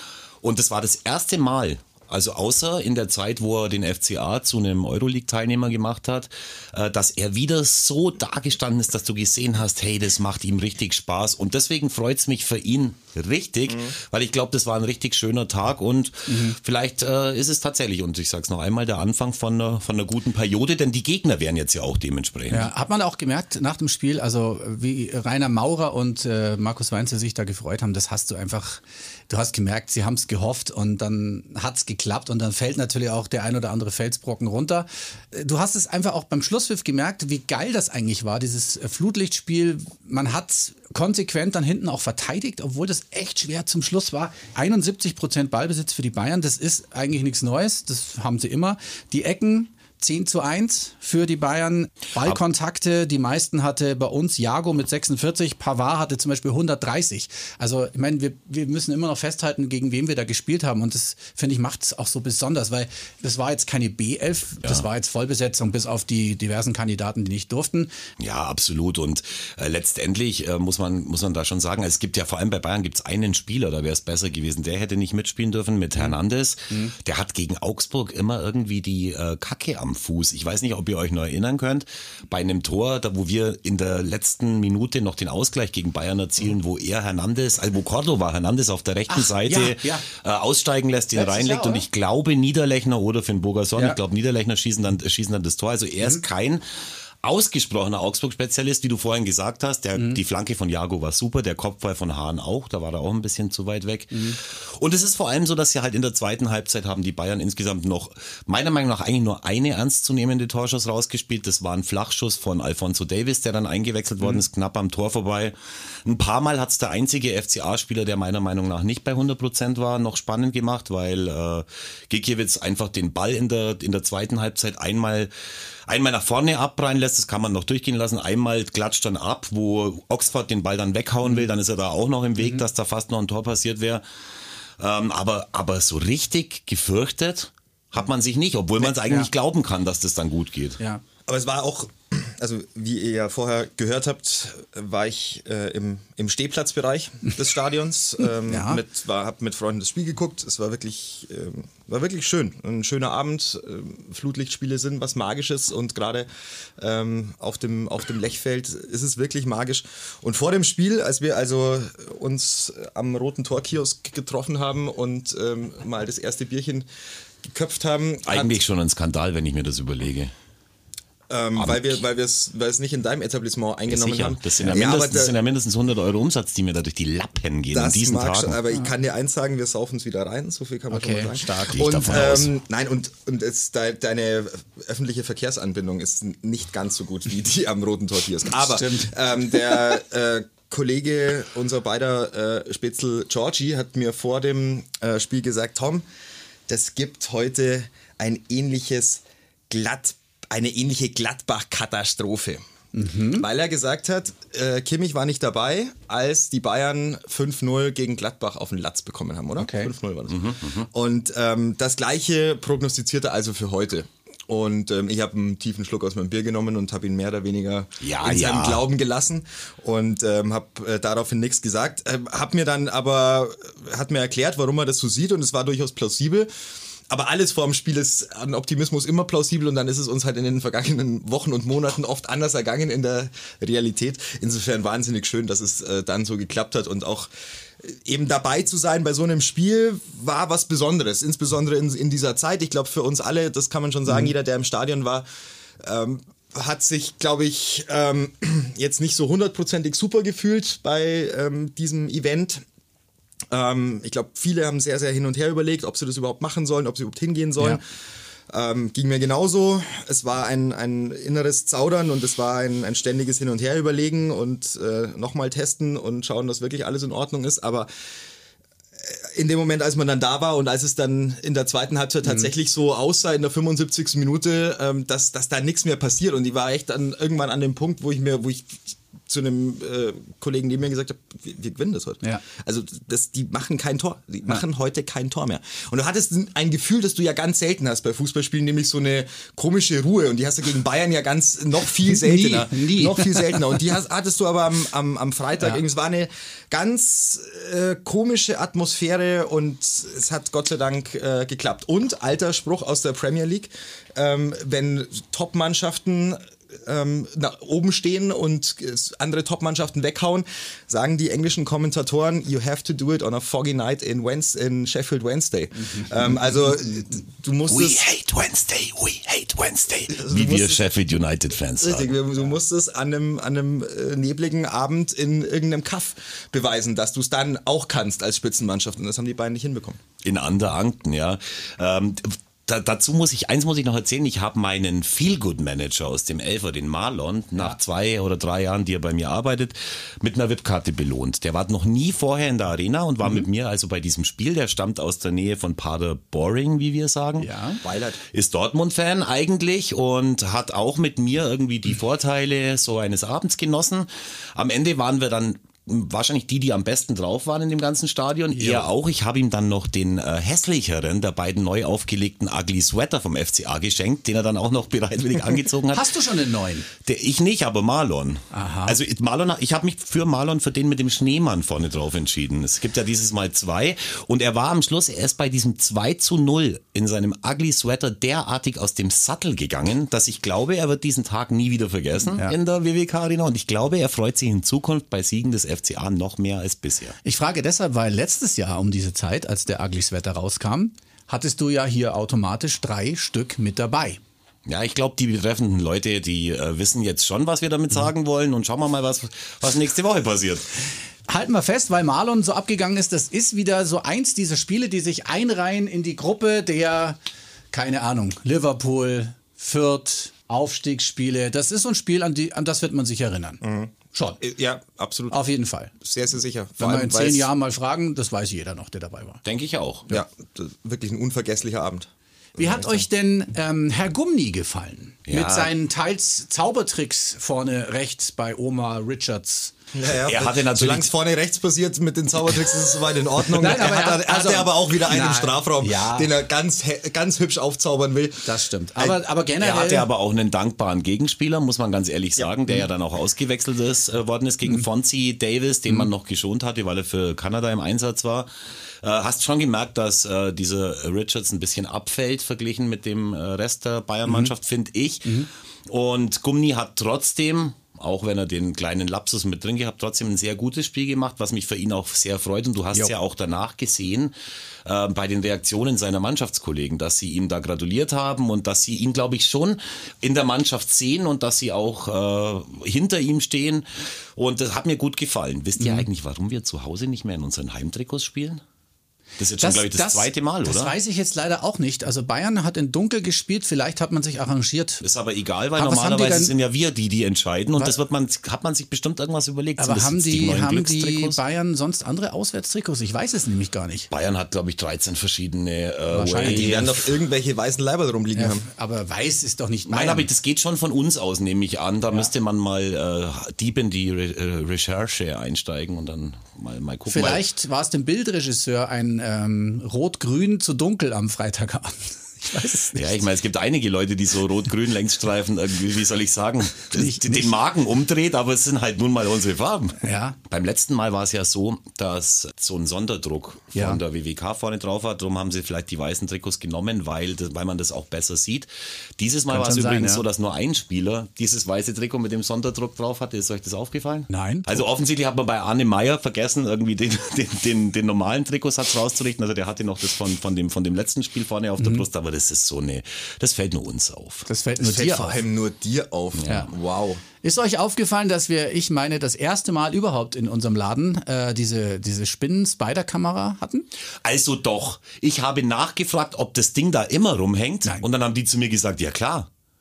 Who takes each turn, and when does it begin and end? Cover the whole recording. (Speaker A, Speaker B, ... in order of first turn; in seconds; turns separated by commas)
Speaker A: 0.4-22.7, Speaker B: 16.3-16.6, Speaker B: 22.5-67.9, Speaker A: 68.2-96.6, Speaker B: 89.1-90.0, Speaker B: 91.1-91.8, Speaker A: 97.2-125.3, Speaker B: 104.1-104.4, Speaker A: 125.9-134.0, Speaker B: 132.4-132.6, Speaker A: 134.8-140.8, Speaker B: 138.8-139.3, Speaker C: 141.3-166.8, Speaker B: 148.5-148.8, Speaker C: 167.4-168.6, Speaker A: 168.2-170.3, Speaker C: 171.3-175.3, Speaker A: 171.6-172.0, Speaker A: 173.9-178.6, Speaker C: 177.7-196.0, Speaker B: 180.9-182.4, Speaker A: 181.6-182.5, Speaker B: 188.6-189.1, Speaker C: 196.7-202.6, Speaker B: 202.9-203.5, Speaker C: 203.3-226.5, Speaker B: 209.6-209.9, Speaker A: 210.3-210.9, Speaker A: 218.0-218.8, Speaker C: 227.1-245.2, Speaker B: 244.1-244.3, Speaker C: 245.8-252.6, Speaker C: 253.5-257.8, Speaker C: 258.5-267.9, Speaker C: 268.9-318.0, Speaker B: 272.2-272.5, Speaker B: 292.1-293.7, Speaker B: 315.8-316.3, Speaker A: 317.7-322.1, Speaker C: 320.1-320.8, Speaker C: 321.8-330.0, Speaker A: 330.2-347.5, Speaker B: 347.4-347.8, Speaker C: 347.8-348.2, Speaker A: 348.3-366.1, Speaker B: 358.5-358.9, Speaker B: 365.9-366.9, Speaker A: 367.0-387.1, Speaker B: 368.5-369.0, Speaker B: 387.2-394.2, Speaker A: 394.6-400.7, Speaker B: 401.3-407.2, Speaker B: 407.7-413.6, Speaker C: 413.6-415.4, Speaker B: 414.1-414.4, Speaker B: 415.3-415.9, Speaker C: 416.0-417.5, Speaker B: 416.8-419.4, Speaker A: 419.4-420.1, Speaker C: 420.1-423.0, Speaker B: 422.6-429.7, Speaker A: 425.3-425.7, Speaker C: 429.9-439.1, Speaker A: 430.2-431.1, Speaker B: 433.4-436.4, Speaker B: 438.4-440.1, Speaker A: 439.6-448.5, Speaker A: 449.0-478.6, Speaker B: 454.2-454.5, Speaker B: 475.8-476.1, Speaker A: 479.4-480.9, Speaker B: 479.6-485.0, Speaker A: 485.0-491.4, Speaker B: 485.8-486.5, Speaker B: 489.8-494.1, Speaker A: 494.1-497.0, Speaker B: 496.1-497.1, Speaker C: 496.4-498.7, Speaker B: 498.3-500.3, Speaker A: 499.9-507.4, Speaker B: 507.1-513.0, Speaker A: 512.9-544.5, Speaker B: 516.9-517.5, Speaker B: 520.0-520.4, Speaker B: 523.7-524.0, Speaker B: 529.5-530.2, Speaker B: 534.3-534.8, Speaker B: 541.8-542.0, Speaker B: 544.5-545.4, Speaker C: 544.8-547.2, Speaker A: 546.4-546.7, Speaker B: 546.5-546.7, Speaker B: 547.4-553.9, Speaker A: 554.2-559.5